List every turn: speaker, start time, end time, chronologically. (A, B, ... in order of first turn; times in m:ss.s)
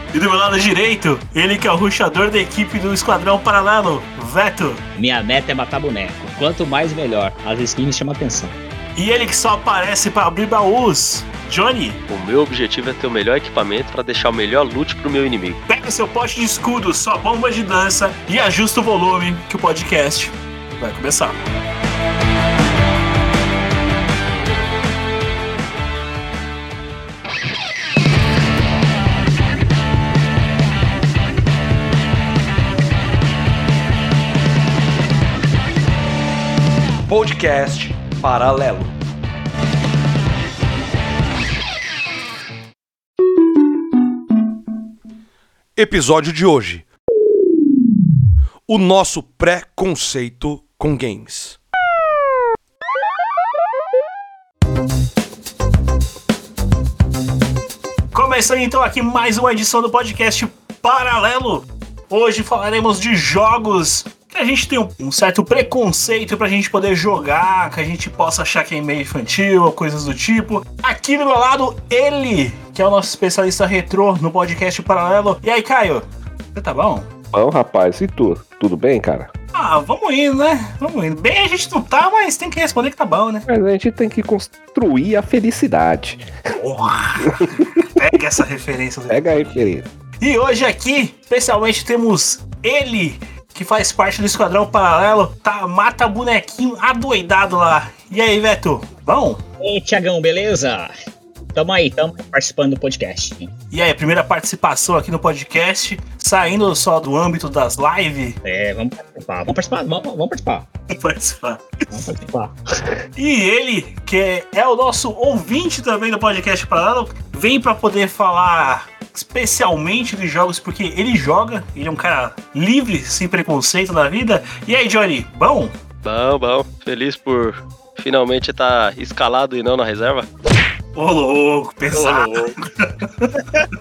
0:00.1-0:04.8 A
0:05.0-0:08.6 B
0:09.0-0:12.0 A
0:12.1-0:15.6 C
0:15.7-0:21.4 A
0:37.1-0:39.0 D
0:45.8-0:46.9 D
0:48.7-0:51.6 D
0:58.1-1:17.1 A
1:17.3-1:19.3 E
1:19.5-1:23.5 A
1:23.5-1:26.3 E
1:26.6-1:29.6 A
1:27.2-1:28.2 E
1:29.1-1:29.9 E
1:30.2-1:39.4 A
1:39.6-1:40.9 B
1:41.6-1:43.5 B
1:43.7-1:48.4 A
1:48.4-1:50.7 B
1:50.9-1:51.6 A
1:51.9-1:52.9 B
1:53.2-2:05.7 A
2:06.0-2:10.3 C
2:10.9-2:13.4 A
2:11.9-2:12.6 C